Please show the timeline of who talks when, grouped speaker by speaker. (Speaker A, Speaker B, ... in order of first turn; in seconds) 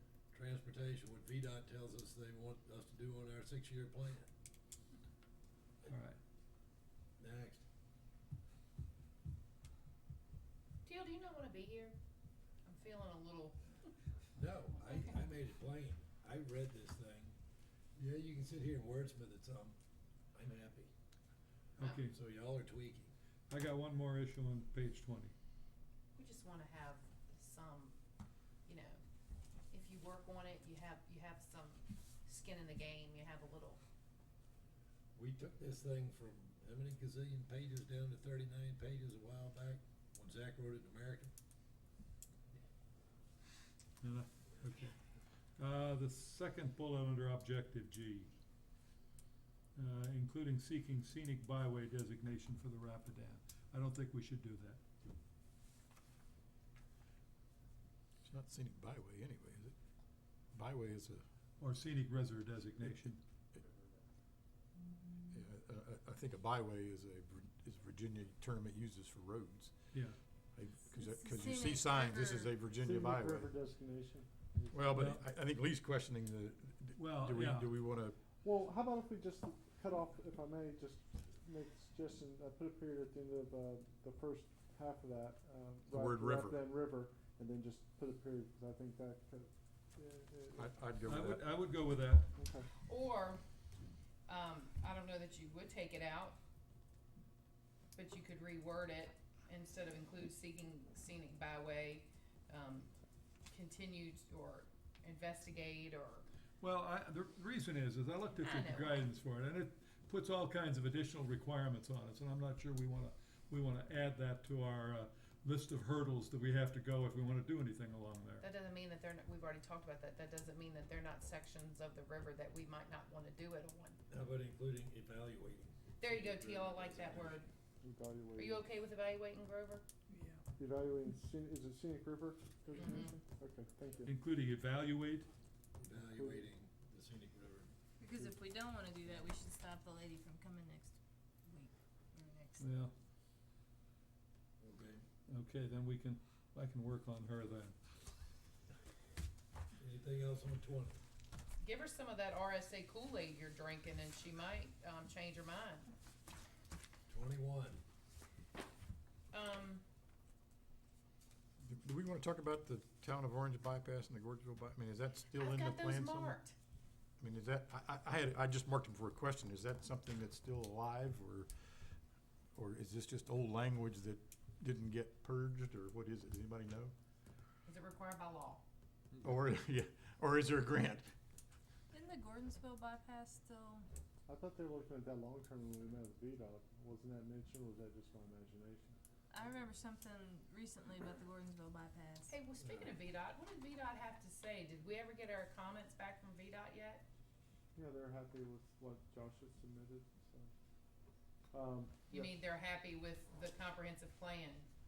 Speaker A: 0.3-4.3, 7.2-7.6, 14.4-17.4, 18.0-19.8, 20.3-20.9, 22.0-23.1, 35.1-41.3, 124.1-127.4, 135.8-137.7, 144.6-145.0, 149.8-151.0, 157.1-157.8
Speaker B: 5.9-6.2, 21.8-22.2, 23.5-25.3, 44.0-44.9, 45.6-48.3, 49.8-54.8, 61.6-63.2, 74.9-75.2, 77.0-77.8, 91.1-92.3, 106.6-118.5, 134.1-135.3, 142.6-142.9, 145.3-147.8
Speaker C: 10.8-12.0, 12.7-13.9, 26.1-28.0, 28.7-29.0, 29.7-33.8, 92.8-93.4, 94.3-96.4, 98.0-102.9, 103.5-106.3, 108.4-109.1, 118.4-124.0, 126.0-127.5, 128.4-129.9, 132.8-133.1, 151.6-155.9, 159.3-159.8, 165.3-166.5, 177.7-178.6, 192.3-197.0, 202.1-204.7
Speaker D: 58.2-59.7, 60.5-61.2, 65.3-69.8, 70.6-73.5, 74.7-78.2, 85.9-86.7, 90.6-91.5, 161.6-166.4, 167.2-171.5, 172.6-176.9, 179.2-181.1
Speaker E: 70.9-72.5, 130.1-130.4, 138.0-142.9, 181.9-183.8, 189.3-192.4
Speaker F: 72.7-74.9, 78.4-90.8, 92.4-92.7, 127.8-128.6, 130.6-134.1, 136.0-136.5, 184.3-189.0, 197.8-200.5, 201.5-202.3